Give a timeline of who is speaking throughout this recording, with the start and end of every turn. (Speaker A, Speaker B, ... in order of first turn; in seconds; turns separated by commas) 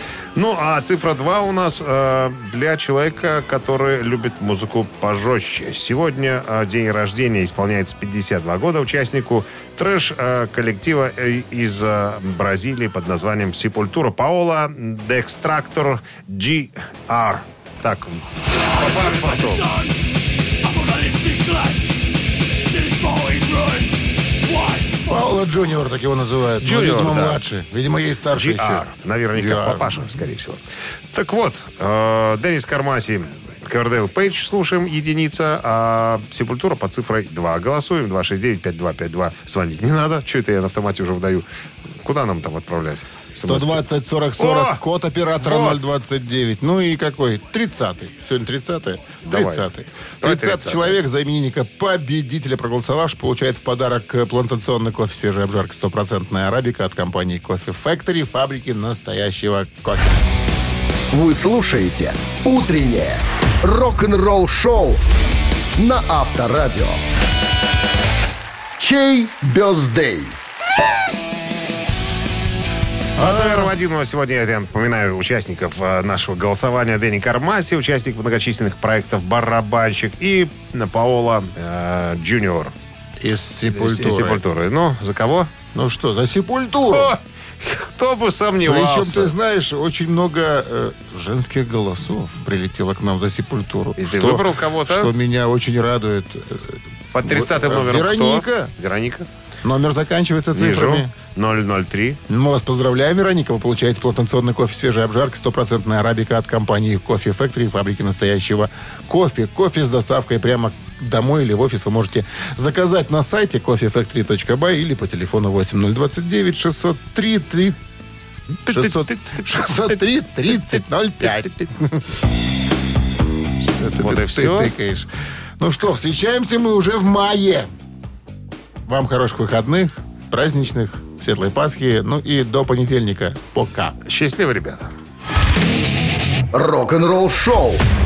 Speaker A: 0.3-19.8, Speaker A: 22.9-23.7, Speaker B: 25.1-30.2, Speaker A: 26.6-27.4, Speaker A: 28.3-30.6, Speaker A: 31.1-41.5, Speaker A: 42.0-43.8, Speaker B: 43.4-60.2, Speaker A: 44.4-44.8, Speaker A: 45.4-45.8, Speaker A: 49.3-49.7, Speaker A: 50.2-51.0, Speaker C: 61.1-65.0, Speaker C: 65.8-67.0, Speaker C: 68.8-70.3, Speaker B: 73.2-73.7, Speaker A: 73.2-82.7, Speaker B: 83.2-84.4, Speaker A: 83.7-85.5, Speaker B: 85.7-87.1, Speaker A: 86.9-89.3, Speaker B: 88.6-98.7, Speaker A: 94.0-95.1, Speaker A: 97.1-99.3, Speaker B: 99.6-101.1, Speaker A: 100.5-102.2, Speaker B: 102.3-117.8, Speaker B: 118.6-122.0, Speaker A: 118.7-119.8, Speaker B: 123.6-127.7, Speaker A: 124.0-124.7, Speaker B: 128.8-133.9, Speaker A: 134.1-134.9, Speaker C: 136.5-137.8